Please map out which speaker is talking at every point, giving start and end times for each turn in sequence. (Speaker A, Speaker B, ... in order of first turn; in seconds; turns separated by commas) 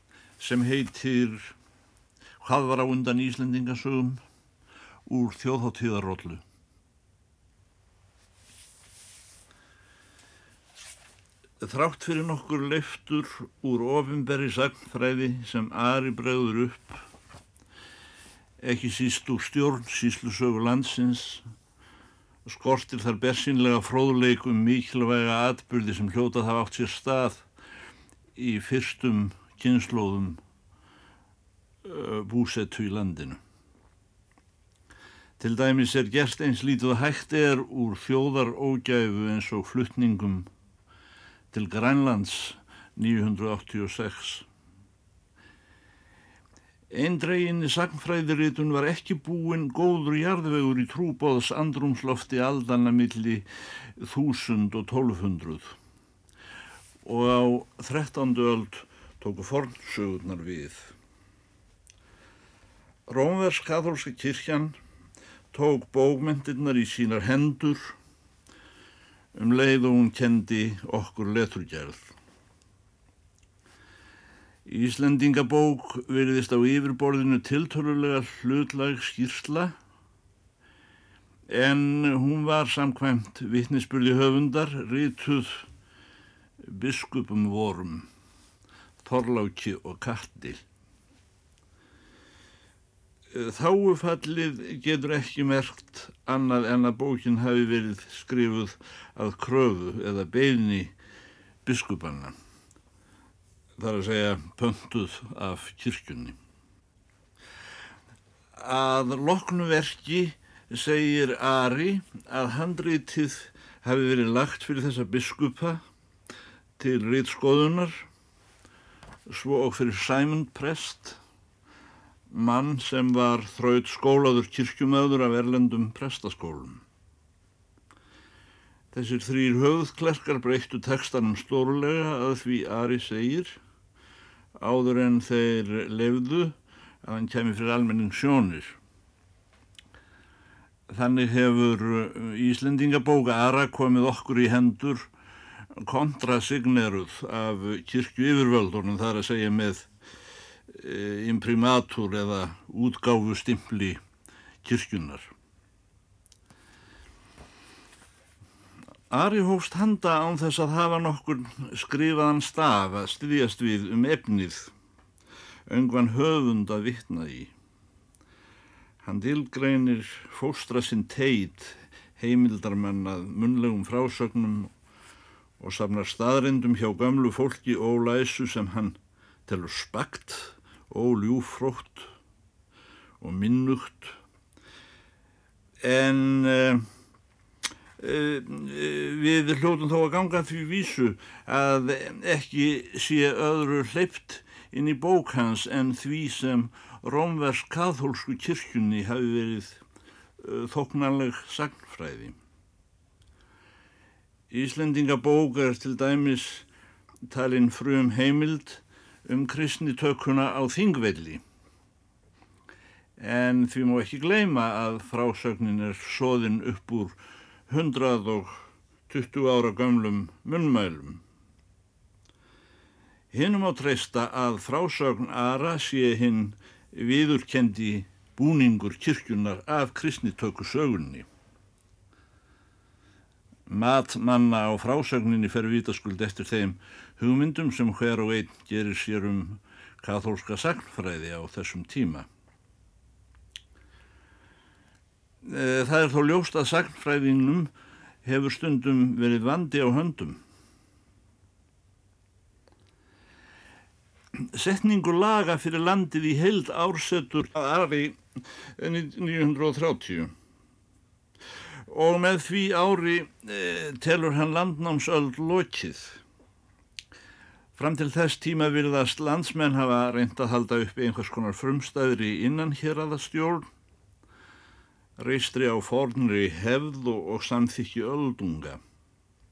Speaker A: 0.4-1.6, Speaker A: 2.4-4.2, Speaker A: 5.1-6.4, Speaker A: 11.6-17.0, Speaker A: 18.6-21.4, Speaker A: 22.4-27.4, Speaker A: 28.4-30.4, Speaker A: 31.8-33.4, Speaker A: 35.4-40.5, Speaker A: 41.5-44.5, Speaker A: 46.9-53.5, Speaker A: 54.0-55.8, Speaker A: 57.0-60.9, Speaker A: 63.1-64.8, Speaker A: 65.5-67.9, Speaker A: 69.3-72.1, Speaker A: 74.7-79.7, Speaker A: 81.5-85.7, Speaker A: 86.6-88.1, Speaker A: 89.0-90.6, Speaker A: 93.3-100.9, Speaker A: 101.6-102.3, Speaker A: 103.8-106.3, Speaker A: 108.5-115.8, Speaker A: 116.8-118.1, Speaker A: 119.3-121.2, Speaker A: 122.3-126.8, Speaker A: 128.9-133.6, Speaker A: 134.6-138.8, Speaker A: 140.9-145.1, Speaker A: 145.8-149.9, Speaker A: 150.7-154.0, Speaker A: 154.6-155.3, Speaker A: 159.1-164.7, Speaker A: 165.7-167.5, Speaker A: 169.0-174.7, Speaker A: 175.6-182.1, Speaker A: 183.2-184.2, Speaker A: 185.8-186.8, Speaker A: 188.0-199.8, Speaker A: 200.4-202.3, Speaker A: 204.5-206.7, Speaker A: 207.3-211.4, Speaker A: 213.2-217.2, Speaker A: 217.7-221.2, Speaker A: 223.3-231.3, Speaker A: 233.7-242.3, Speaker A: 245.4-247.7, Speaker A: 248.2-250.4, Speaker A: 254.3-258.2, Speaker A: 258.8-260.3, Speaker A: 261.9-266.2, Speaker A: 267.8-273.7, Speaker A: 275.2-278.8